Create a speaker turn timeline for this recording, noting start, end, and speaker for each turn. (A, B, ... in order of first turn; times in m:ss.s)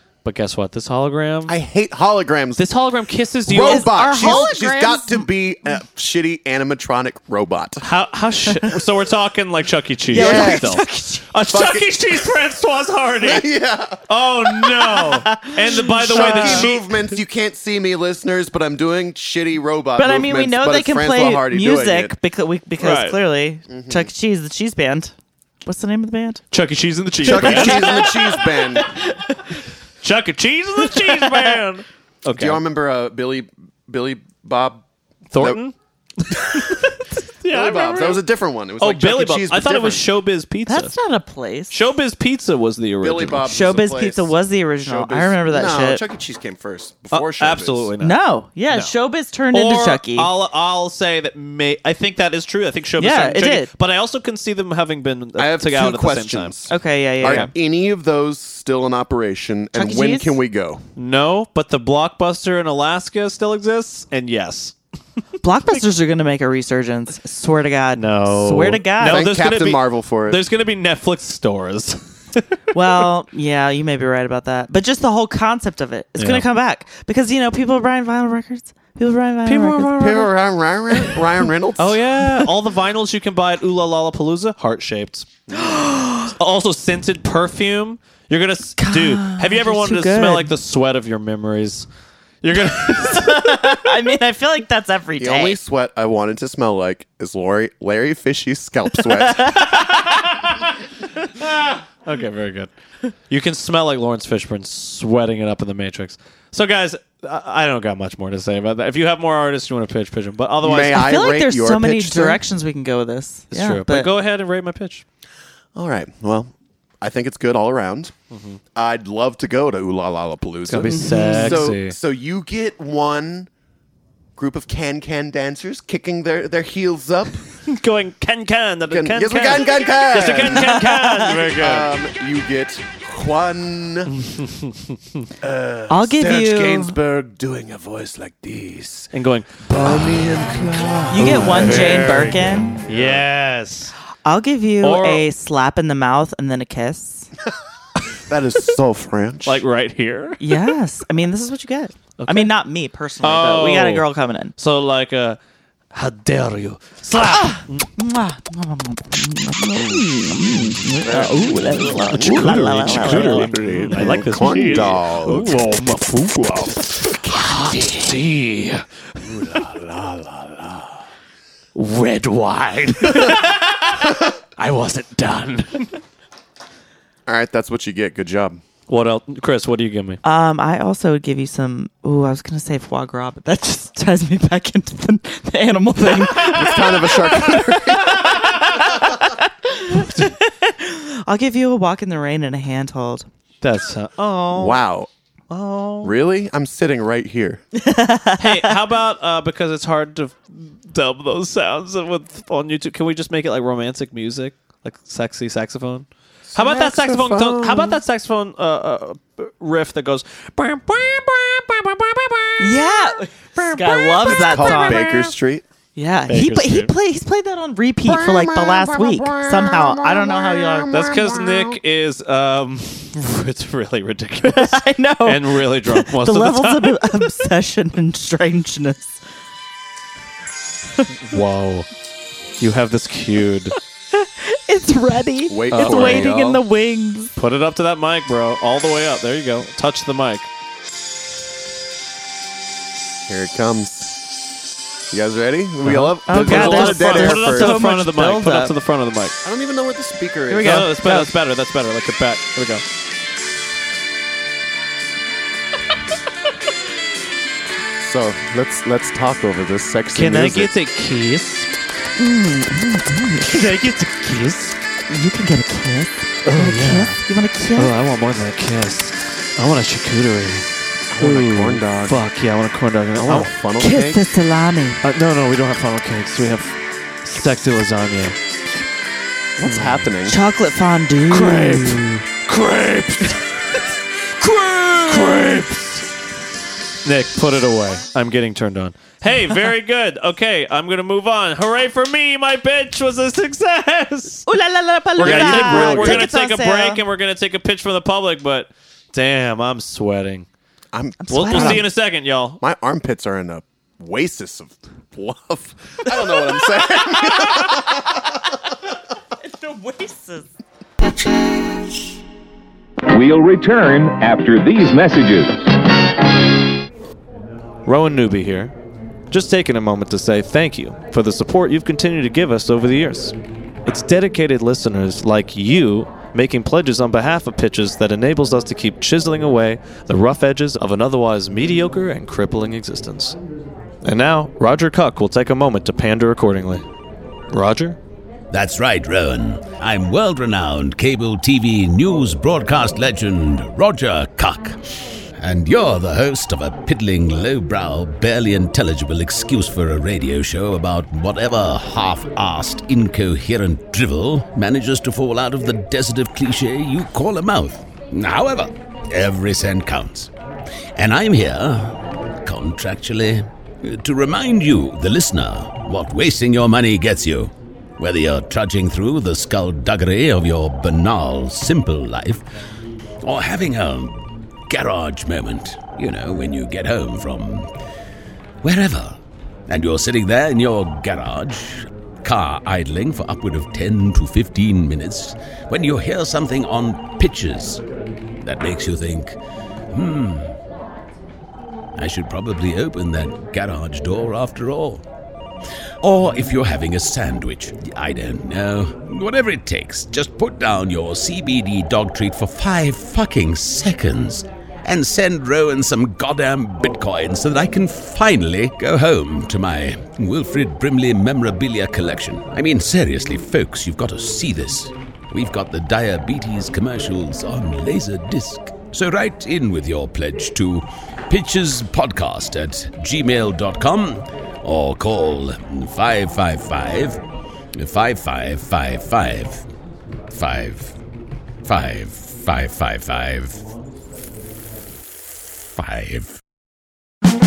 0:00.2-0:01.6 A
0:01.5-0:02.6 B
0:02.6-0:04.5 A
0:03.4-0:07.8 B
0:03.6-0:05.3 C
0:07.8-0:13.5 A
0:10.1-0:11.3 C
0:10.1-0:10.8 B
0:11.5-0:12.0 B
0:13.2-0:14.0 B
0:14.0-0:16.9 A
0:14.6-0:16.7 C
0:16.0-0:22.2 B
0:20.0-0:25.1 C
0:22.8-0:23.2 A
0:23.7-0:24.1 B
0:25.6-0:26.4 C
0:26.5-0:28.1 A
0:27.2-0:28.9 B
0:27.2-0:29.6 C
0:30.0-0:32.6 A
0:30.8-0:31.6 C
0:32.3-0:34.8 B
0:35.3-0:38.2 A
0:36.5-0:36.7 B
0:37.5-0:40.1 B
0:38.8-0:40.9 A
0:40.7-0:41.8 C
0:41.7-0:43.5 A
0:43.0-0:47.9 B
0:43.5-0:46.0 C
0:47.1-0:48.2 A
0:48.0-0:50.3 C
0:49.5-0:56.6 A
0:53.0-0:53.7 C
0:55.4-1:00.8 B
0:56.7-0:57.5 C
0:57.2-0:57.5 A
0:59.8-1:00.4 C
1:01.0-1:04.8 A
1:05.4-1:09.3 C
1:08.0-1:12.6 A
1:09.0-1:10.4 B
1:12.7-1:20.2 C
1:16.2-1:16.4 A
1:19.4-1:20.3 A
1:20.0-1:22.0 B
1:21.8-1:25.3 A
1:25.5-1:26.3 C
1:26.3-1:31.9 A
1:28.8-1:30.5 C
1:32.4-1:33.8 A
1:32.9-1:35.6 C
1:35.2-1:39.6 B
1:39.2-1:40.2 C
1:39.6-1:40.7 A
1:41.4-1:42.7 A
1:43.3-1:51.1 A
1:50.6-1:52.4 B
1:50.8-1:54.1 C
1:53.5-1:55.0 A
1:55.8-1:58.1 B
1:58.3-1:58.6 A
1:58.7-2:03.5 B
2:00.7-2:02.0 A
2:00.9-2:01.7 C
2:04.4-2:07.4 B
2:07.6-2:12.0 A
2:08.9-2:14.2 B
2:10.4-2:11.4 C
2:14.1-2:15.0 A
2:15.4-2:19.1 B
2:15.9-2:17.0 C
2:19.1-2:20.5 A
2:19.7-2:22.2 B
2:21.0-2:23.9 A
2:21.1-2:22.8 C
2:22.9-2:23.2 B
2:24.2-2:27.3 C
2:24.8-2:25.3 A
2:28.3-2:29.6 B
2:29.4-2:30.7 A
2:30.4-2:34.5 C
2:32.2-2:32.5 A
2:33.2-2:34.1 A
2:34.6-2:35.4 A
2:35.9-2:37.9 A
2:37.3-2:44.1 C
2:41.1-2:49.6 A
2:41.1-2:45.6 B
2:47.2-2:48.1 B
2:49.2-2:51.0 B
2:51.8-2:56.0 A
2:57.3-2:58.6 B
2:58.9-3:00.2 A
3:00.2-3:13.3 C
3:06.4-3:08.4 B
3:13.6-3:14.8 A
3:14.5-3:15.1 B
3:15.5-3:16.1 A
3:16.0-3:17.6 B
3:17.8-3:18.7 C
3:18.4-3:35.3 A
3:26.5-3:28.0 B
3:32.6-3:35.1 C
3:34.2-3:35.6 B
3:36.0-3:40.9 C
3:36.3-3:36.9 A
3:38.1-3:41.8 B
3:40.9-3:47.3 A
3:44.4-3:49.2 C
3:51.3-3:51.9 A
3:52.6-3:53.7 A
3:54.1-3:57.3 C
3:55.5-3:56.6 B
3:55.7-3:56.4 A
3:57.4-4:00.5 A
4:03.3-4:04.3 B
4:05.1-4:07.8 B
4:05.8-4:09.4 A
4:06.3-4:08.7 C
4:09.4-4:11.0 B
4:10.5-4:11.3 C
4:10.6-4:12.8 A
4:18.0-4:20.7 B
4:20.1-4:21.7 A
4:22.2-4:23.6 C
4:23.4-4:24.8 A
4:25.1-4:27.9 C
4:26.4-4:27.2 A
4:27.8-4:30.7 A
4:31.1-4:32.2 B
4:31.2-4:33.5 A
4:33.2-4:34.2 B
4:33.8-4:35.0 C
4:35.0-4:38.4 A
4:39.6-4:40.4 B
4:39.6-4:40.0 A
4:40.3-4:42.1 C
4:41.3-4:46.1 A
4:47.0-4:54.5 A
4:54.5-4:57.0 C
4:55.2-5:00.5 A
4:55.2-4:56.3 B
5:00.9-5:01.9 B
5:01.2-5:01.9 C
5:01.3-5:02.6 A
5:02.6-5:08.2 B
5:09.4-5:10.5 C
5:13.1-5:15.7 D
5:17.9-5:18.7 A
5:19.3-5:33.4 A
5:34.0-5:36.8 A
5:37.5-5:38.0 A
5:38.5-5:44.8 E
5:45.4-6:00.3 E
6:01.0-6:12.4 E
6:13.2-6:17.7 E
6:18.6-6:27.8 E
6:28.4-6:29.4 E
6:29.9-6:30.6 E
6:32.0-6:35.0 E
6:36.0-7:07.2 E
7:07.8-7:09.6 E
7:10.3-7:11.0 E
7:11.6-7:13.6 E
7:15.7-7:16.4 E